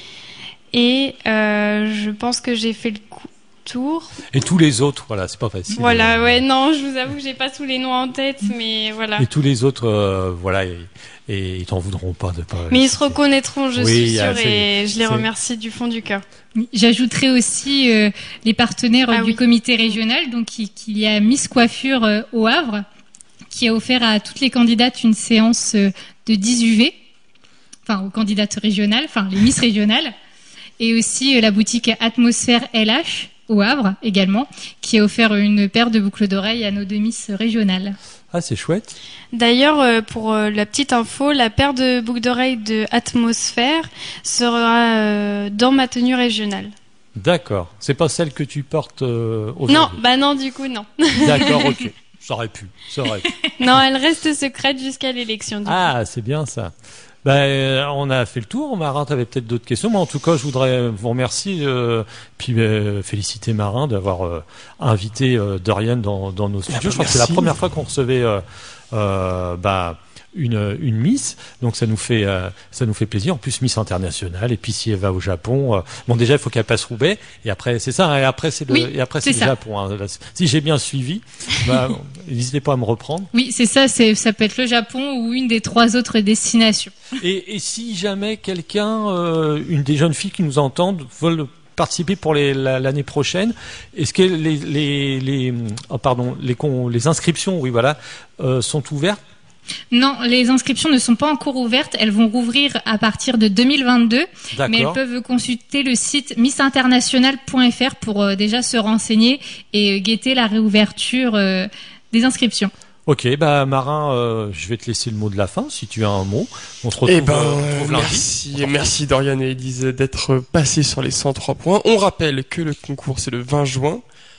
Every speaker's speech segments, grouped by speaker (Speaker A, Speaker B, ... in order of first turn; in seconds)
Speaker A: 0.7-4.1, 5.7-9.3, 12.7-16.2, 19.1-19.4, 39.3-46.7, 49.7-51.8, 53.6-55.9
Speaker B: 4.3-6.4, 9.2-13.2, 13.8-15.3, 38.3-39.0, 47.2-50.0, 51.2-53.3, 55.7-56.7, 57.2-83.3, 87.2-99.2, 104.5-105.0, 113.1-118.8
Speaker C: 16.6-22.8, 23.5-27.0, 27.9-30.1, 30.8-38.0, 78.7-79.5, 83.3-86.9, 99.9-112.7
Speaker D: 66.7-67.6, 117.1-124.0